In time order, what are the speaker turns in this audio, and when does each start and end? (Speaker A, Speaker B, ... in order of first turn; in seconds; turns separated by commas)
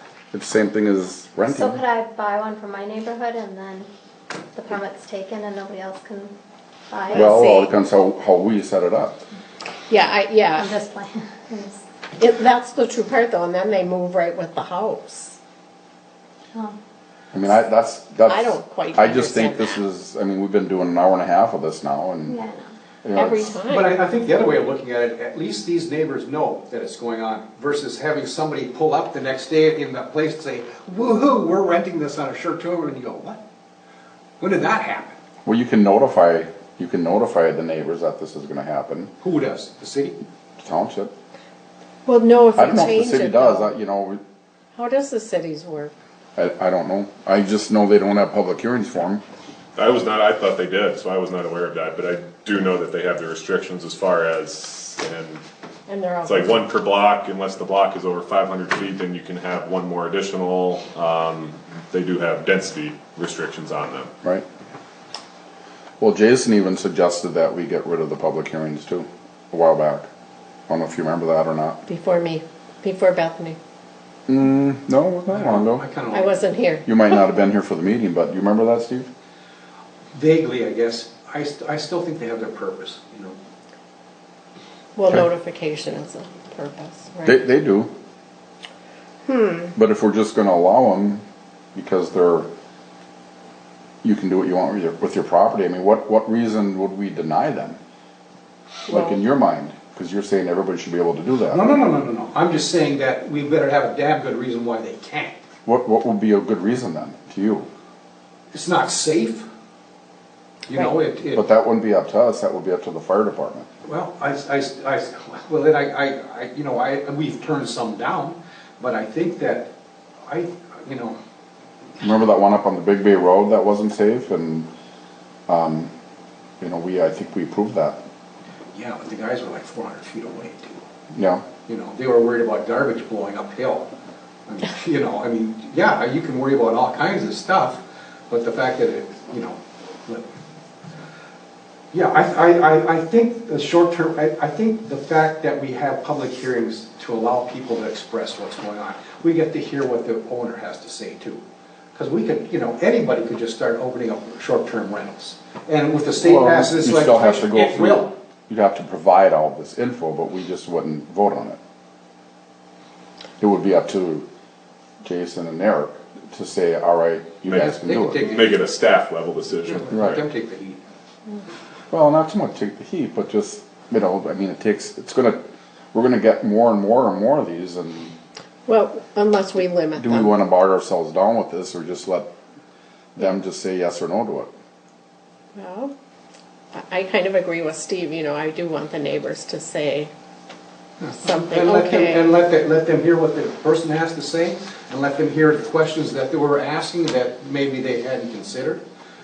Speaker A: 0.3-1.8, Speaker B: 1.5-3.9, Speaker B: 4.5-6.3, Speaker B: 6.9-7.3, Speaker C: 7.1-7.7, Speaker A: 7.1-9.2, Speaker C: 9.9-10.7, Speaker B: 10.5-11.8, Speaker C: 12.2-15.4, Speaker A: 17.3-22.4, Speaker C: 18.3-19.8, Speaker B: 22.2-22.6, Speaker A: 23.0-23.4, Speaker C: 23.1-24.0, Speaker D: 23.6-33.4, Speaker D: 34.4-35.2, Speaker A: 35.4-39.1, Speaker D: 39.2-40.2, Speaker A: 40.6-41.1, Speaker C: 42.0-43.7, Speaker A: 42.5-44.2, Speaker C: 44.7-45.9, Speaker A: 46.4-49.2, Speaker E: 49.8-55.4, Speaker C: 55.9-56.5, Speaker E: 56.2-64.1, Speaker A: 66.0-70.1, Speaker A: 70.7-71.8, Speaker C: 71.8-73.6, Speaker A: 74.3-75.8, Speaker D: 75.3-76.4, Speaker C: 76.1-77.1, Speaker A: 76.8-79.1, Speaker D: 80.1-83.3, Speaker C: 84.9-87.4, Speaker A: 87.2-87.9, Speaker C: 89.2-89.7, Speaker A: 89.7-91.2, Speaker A: 91.7-92.5, Speaker A: 94.0-97.8, Speaker C: 98.9-99.2, Speaker A: 98.9-101.7, Speaker D: 101.5-105.3, Speaker A: 105.7-107.7, Speaker D: 108.5-109.5, Speaker D: 110.7-111.4, Speaker A: 111.3-113.7, Speaker D: 113.8-119.7, Speaker D: 120.3-121.2, Speaker A: 122.0-124.7, Speaker A: 125.5-125.9, Speaker A: 126.6-128.0, Speaker D: 128.7-130.8, Speaker A: 131.1-131.4, Speaker D: 131.7-133.9, Speaker D: 134.5-140.3, Speaker D: 141.9-151.4, Speaker D: 151.9-158.1, Speaker A: 156.2-161.6, Speaker A: 163.4-164.2, Speaker A: 165.0-168.2, Speaker E: 167.5-170.2, Speaker D: 167.6-168.6, Speaker D: 169.7-170.8, Speaker A: 169.9-170.2, Speaker A: 171.9-175.4, Speaker A: 175.9-178.1, Speaker C: 178.7-180.4, Speaker A: 180.0-182.3, Speaker A: 183.1-184.5, Speaker C: 185.5-185.9, Speaker C: 186.7-190.1, Speaker D: 191.0-198.8, Speaker C: 191.2-192.3